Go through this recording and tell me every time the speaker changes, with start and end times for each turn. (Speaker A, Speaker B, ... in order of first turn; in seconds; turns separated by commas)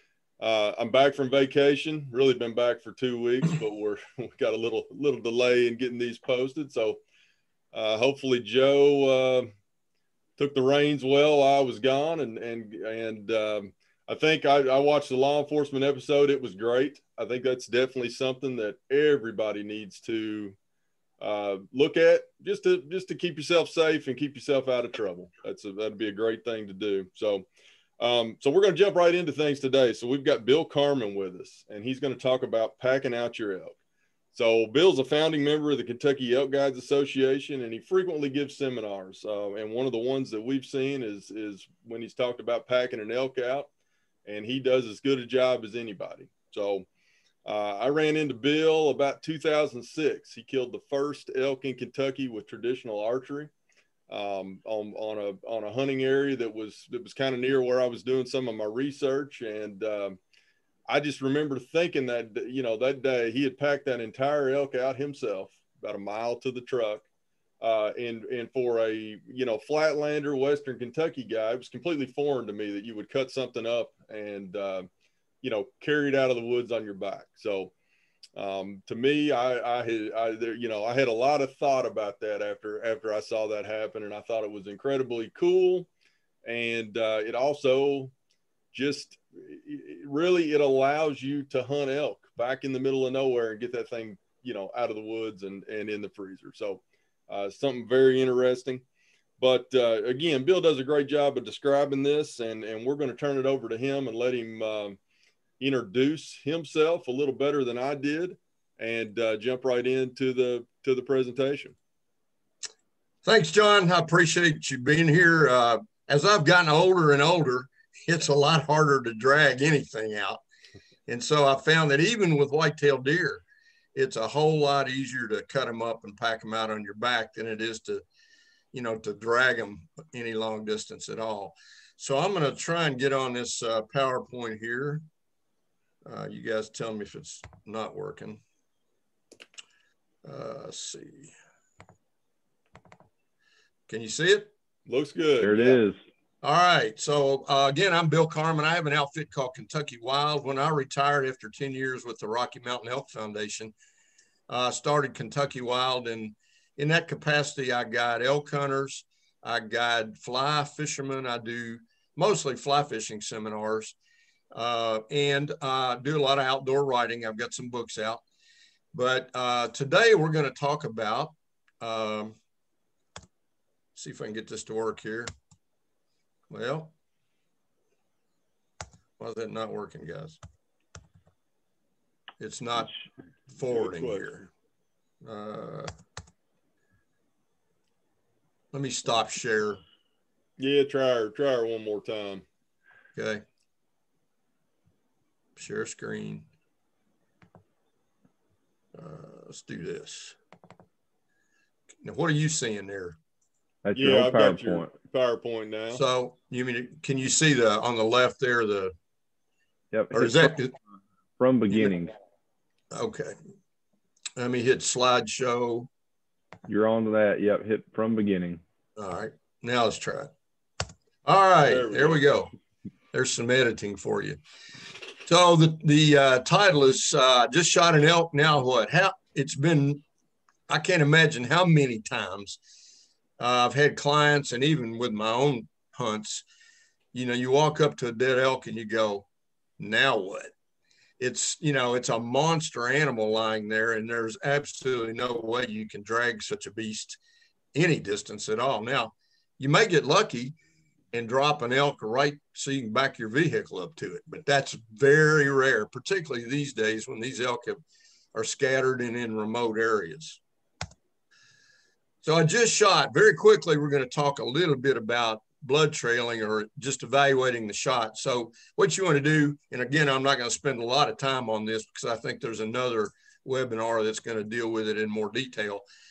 Speaker A: 0.4-7.0, Speaker A: 7.7-9.5, Speaker A: 10.4-20.6, Speaker A: 21.2-27.4, Speaker A: 28.0-33.8, Speaker A: 34.3-43.7, Speaker A: 44.2-46.9, Speaker A: 47.4-53.5, Speaker A: 54.1-60.2, Speaker A: 60.9-67.0, Speaker A: 67.6-74.9, Speaker A: 75.4-77.7, Speaker A: 78.4-85.9, Speaker A: 86.4-88.1, Speaker A: 88.7-98.8, Speaker A: 99.4-105.0, Speaker A: 105.6-111.7, Speaker B: 113.2-120.4, Speaker B: 121.1-128.0, Speaker B: 128.7-135.0, Speaker B: 136.0-138.4, Speaker B: 140.2-141.3, Speaker B: 143.9-144.5, Speaker A: 144.9-145.8, Speaker C: 145.4-145.9, Speaker B: 146.4-153.7, Speaker B: 154.5-163.9, Speaker B: 164.5-168.2, Speaker B: 168.9-172.3, Speaker B: 173.9-175.3, Speaker B: 176.5-176.9, Speaker B: 179.2-180.4, Speaker B: 182.4-182.9, Speaker B: 183.5-184.4, Speaker A: 183.6-184.5, Speaker B: 185.2-185.9, Speaker B: 188.7-189.8, Speaker A: 190.6-192.4, Speaker B: 193.2-193.4, Speaker B: 195.6-196.5, Speaker B: 198.9-200.4, Speaker B: 202.0-203.2, Speaker C: 203.8-204.9, Speaker A: 203.9-206.0, Speaker B: 205.9-208.9, Speaker C: 209.9-210.5, Speaker B: 210.1-210.7, Speaker C: 211.4-212.1, Speaker B: 212.9-213.3, Speaker B: 214.4-215.9, Speaker C: 216.7-218.6, Speaker B: 219.0-220.3, Speaker B: 221.2-222.5, Speaker A: 221.6-222.2, Speaker B: 223.1-224.4, Speaker B: 225.2-230.0, Speaker B: 230.7-232.6, Speaker B: 233.4-236.4, Speaker B: 237.1-239.2, Speaker B: 239.8-240.5, Speaker B: 241.2-247.2, Speaker B: 247.7-250.6, Speaker B: 251.1-257.8, Speaker B: 258.3-260.4, Speaker B: 262.2-275.9